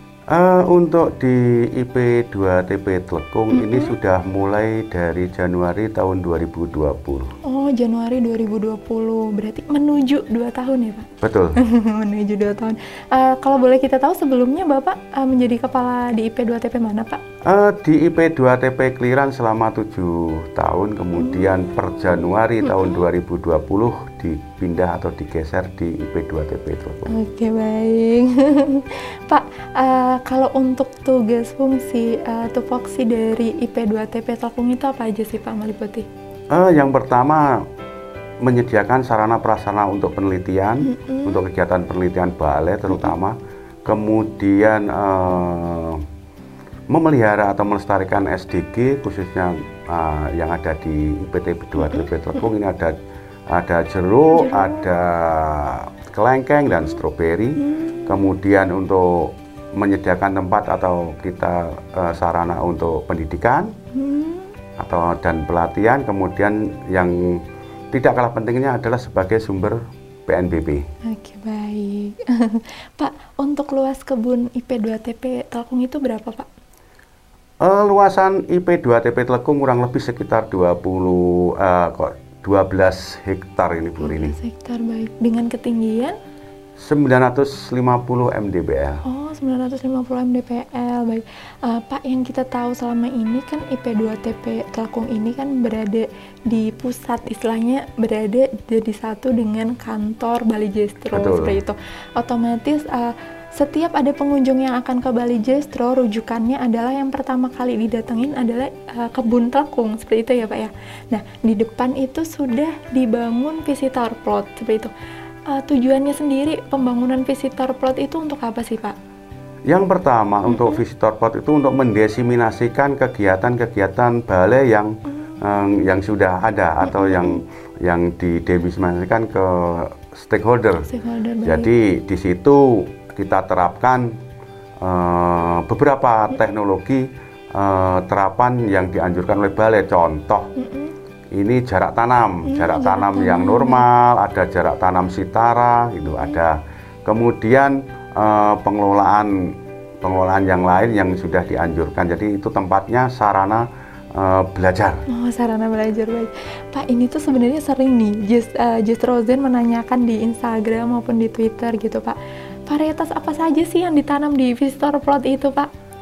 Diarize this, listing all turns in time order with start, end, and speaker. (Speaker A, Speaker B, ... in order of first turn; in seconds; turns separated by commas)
Speaker A: 0.3-7.3, Speaker B: 3.5-3.9, Speaker B: 7.5-17.2, Speaker A: 11.2-11.6, Speaker A: 17.4-27.1, Speaker B: 22.6-23.0, Speaker B: 27.1-36.1, Speaker A: 36.5-37.6, Speaker A: 38.4-46.0, Speaker B: 40.8-41.4, Speaker A: 46.9-53.0, Speaker B: 51.8-52.1, Speaker A: 53.5-63.7, Speaker B: 54.3-54.9, Speaker B: 57.6-58.3, Speaker B: 63.9-64.5, Speaker A: 64.8-70.8, Speaker B: 71.1-76.5, Speaker A: 77.6-84.3, Speaker B: 84.0-86.2, Speaker A: 86.8-89.0, Speaker B: 89.0-114.9, Speaker A: 101.1-101.6, Speaker B: 115.5-119.0, Speaker A: 119.7-130.9, Speaker B: 120.5-120.8, Speaker B: 126.8-127.4, Speaker B: 130.9-131.7, Speaker A: 131.4-134.1, Speaker A: 134.8-140.5, Speaker B: 140.6-140.9, Speaker A: 141.3-149.5, Speaker B: 142.4-143.9, Speaker A: 150.0-155.0, Speaker B: 155.1-162.2, Speaker B: 162.7-165.7